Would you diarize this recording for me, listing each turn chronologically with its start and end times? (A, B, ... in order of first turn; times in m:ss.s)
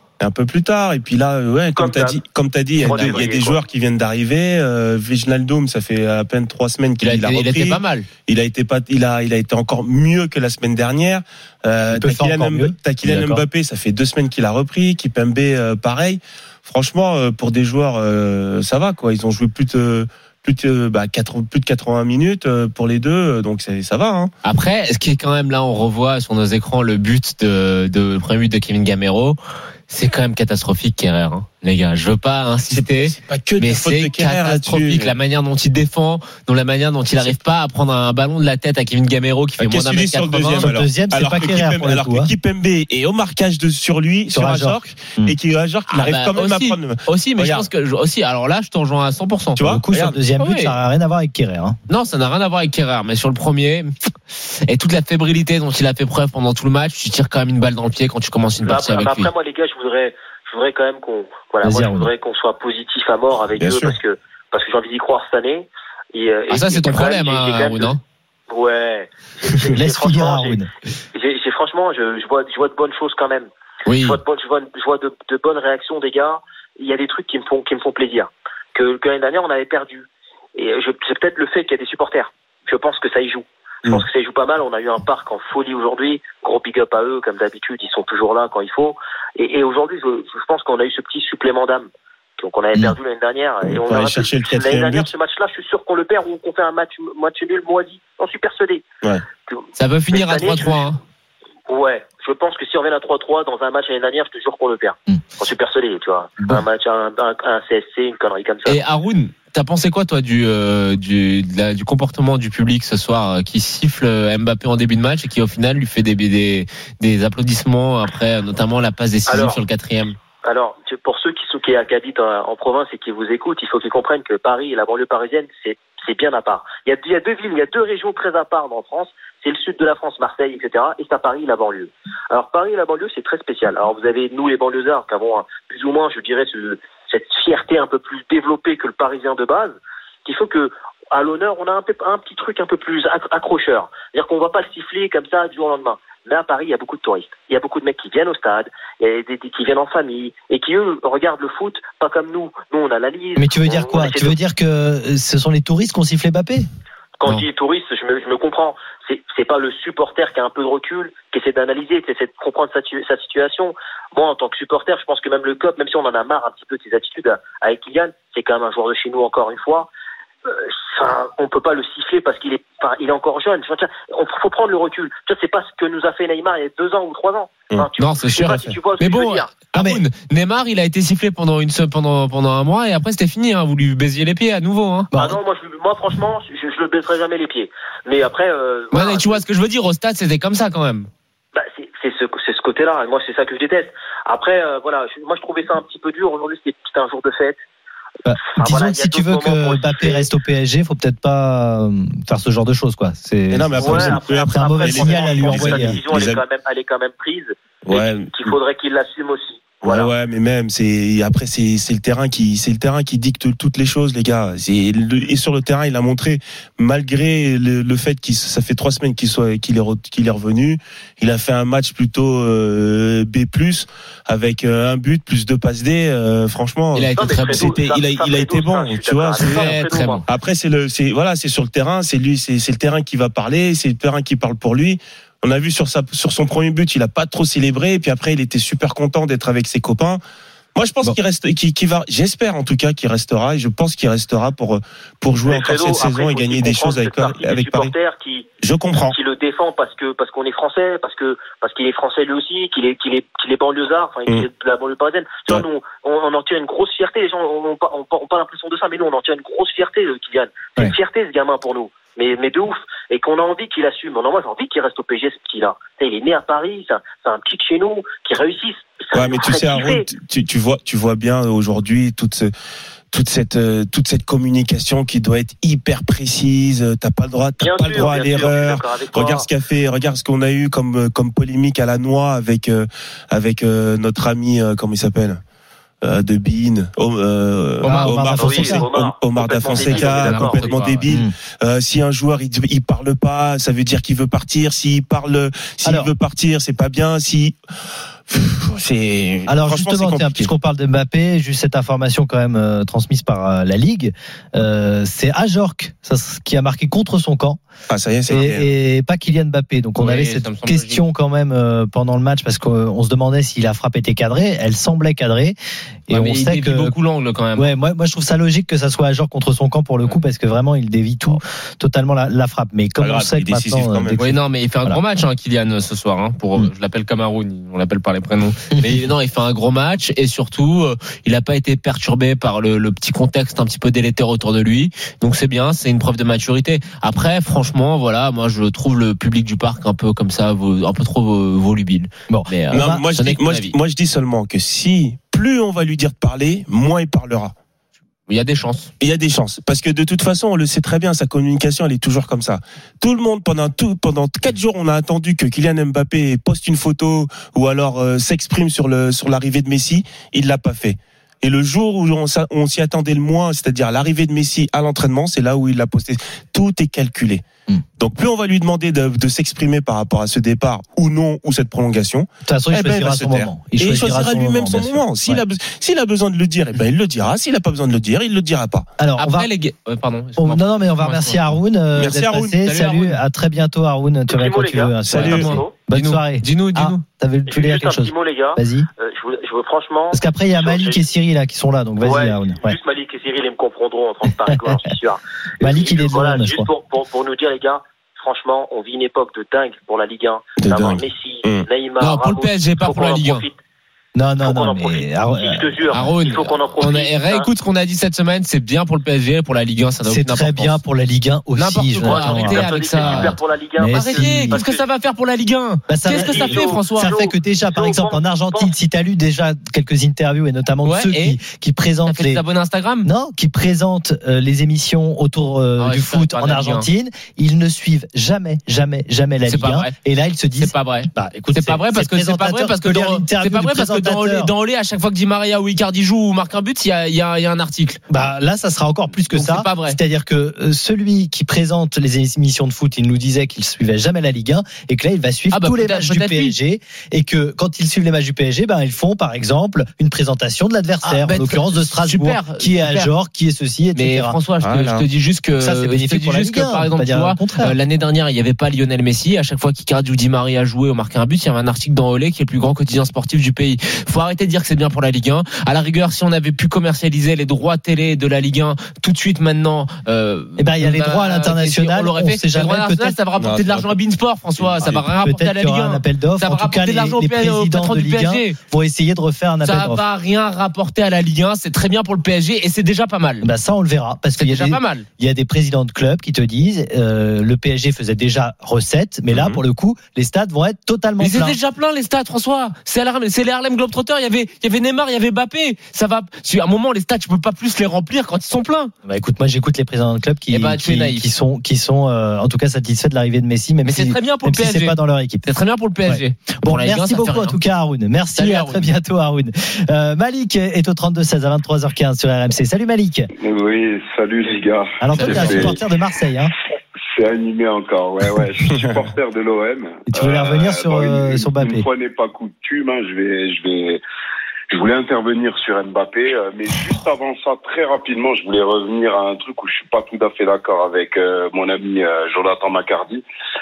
0:00.2-0:24.3 A
0:01.8-0:02.2 B
0:02.8-0:03.6 B
0:02.8-0:03.2 C
0:07.0-0:08.1 C
0:11.9-0:13.4 D
0:24.4-0:29.4 C
0:29.9-0:40.7 C
0:32.7-0:35.1 A
0:39.6-0:47.7 A
0:40.5-0:42.3 D
0:44.3-0:45.3 D
0:45.9-0:49.6 C
0:49.6-0:50.2 A
0:49.6-0:51.8 D
0:50.4-0:50.7 C
0:51.9-0:59.3 C
0:58.6-1:08.0 B
1:01.6-1:02.1 D
1:03.6-1:03.9 A
1:06.5-1:08.0 C
1:08.5-1:10.6 B
1:09.7-1:10.7 D
1:11.1-1:13.5 B
1:13.8-1:14.2 C
1:14.0-1:38.8 B
1:33.6-1:35.1 A
1:39.5-1:40.8 B
1:39.7-1:41.0 C
1:41.7-1:48.8 B
1:48.6-2:00.2 C
1:59.3-1:59.6 B
2:00.4-2:34.4 B
2:33.4-2:36.7 D
2:37.2-2:49.9 B
2:50.4-2:59.5 B
2:58.0-3:05.1 C
2:59.7-3:00.0 D
3:05.1-3:05.4 D
3:05.2-3:09.4 B
3:08.9-3:11.1 C
3:11.5-3:17.6 B
3:18.2-3:26.0 D
3:18.5-3:20.3 B
3:23.5-3:26.4 A
3:23.8-3:30.1 B
3:27.8-3:28.6 A
3:29.8-3:49.7 A
3:46.9-3:47.7 C
3:47.1-3:50.2 B
3:49.4-3:50.2 C
3:50.3-4:00.2 A
4:00.7-4:07.9 A
4:05.4-4:08.4 B
4:08.6-4:09.2 A
4:09.1-4:30.1 B
4:29.1-4:32.5 A
4:33.1-4:45.4 A
4:37.6-4:39.5 B
4:46.0-4:57.6 A
4:47.8-4:48.8 D
4:47.8-4:48.1 C
4:48.4-4:50.7 B
4:49.7-4:51.0 C
4:51.0-4:51.3 D
4:55.8-4:56.1 D
4:58.3-5:00.5 A
4:59.5-5:07.6 D
5:07.9-5:08.7 A
5:08.3-5:15.6 D
5:10.0-5:11.0 C
5:16.1-5:16.9 D
5:16.1-5:17.7 C
5:17.6-5:24.3 D
5:23.0-5:24.3 A
5:24.2-5:43.7 C
5:42.3-5:43.0 D
5:42.7-5:47.5 A
5:48.3-5:48.9 C
5:49.0-6:07.4 A
6:08.0-6:18.9 A
6:12.4-6:15.4 D
6:19.0-6:19.5 D
6:19.2-6:21.5 C
6:20.4-6:28.9 D
6:21.9-6:22.6 A
6:22.6-6:23.2 C
6:24.3-6:25.7 B
6:25.0-6:25.5 A
6:25.1-6:27.0 C
6:27.5-6:31.0 B
6:30.1-6:32.8 D
6:32.0-6:43.5 B
6:35.6-6:36.7 D
6:40.6-6:41.6 A
6:42.0-6:43.4 C
6:44.1-6:45.8 D
6:44.4-6:47.5 B
6:45.9-6:50.8 C
6:50.0-6:54.6 D
6:51.6-6:53.4 C
6:52.0-6:54.8 B
6:53.9-6:57.1 C
6:55.9-7:02.4 D
6:56.1-6:58.7 B
7:00.8-7:01.4 C
7:02.0-7:03.1 C
7:03.0-7:14.5 D
7:05.8-7:06.9 C
7:09.5-7:09.9 C
7:10.6-7:18.0 C
7:18.1-7:34.4 D
7:19.2-7:20.0 C
7:25.5-7:26.5 C
7:31.0-7:33.1 C
7:33.9-7:58.6 C
7:34.6-7:35.0 A
7:35.6-7:37.8 D
7:50.6-7:53.2 D
7:53.4-7:53.9 A
7:54.6-7:55.1 A
7:55.2-8:00.0 D
7:59.6-8:03.5 C
8:03.4-8:11.6 D
8:04.4-8:05.0 C
8:09.3-8:09.6 A
8:11.2-8:18.9 C
8:19.0-8:25.4 D
8:20.5-8:21.3 C
8:23.8-8:27.6 C
8:26.0-8:33.3 D
8:28.4-8:28.9 C
8:33.4-8:35.8 E
8:35.0-8:36.5 D
8:35.1-8:35.8 C
8:37.0-8:44.0 E
8:40.1-8:41.8 D
8:44.7-8:53.2 E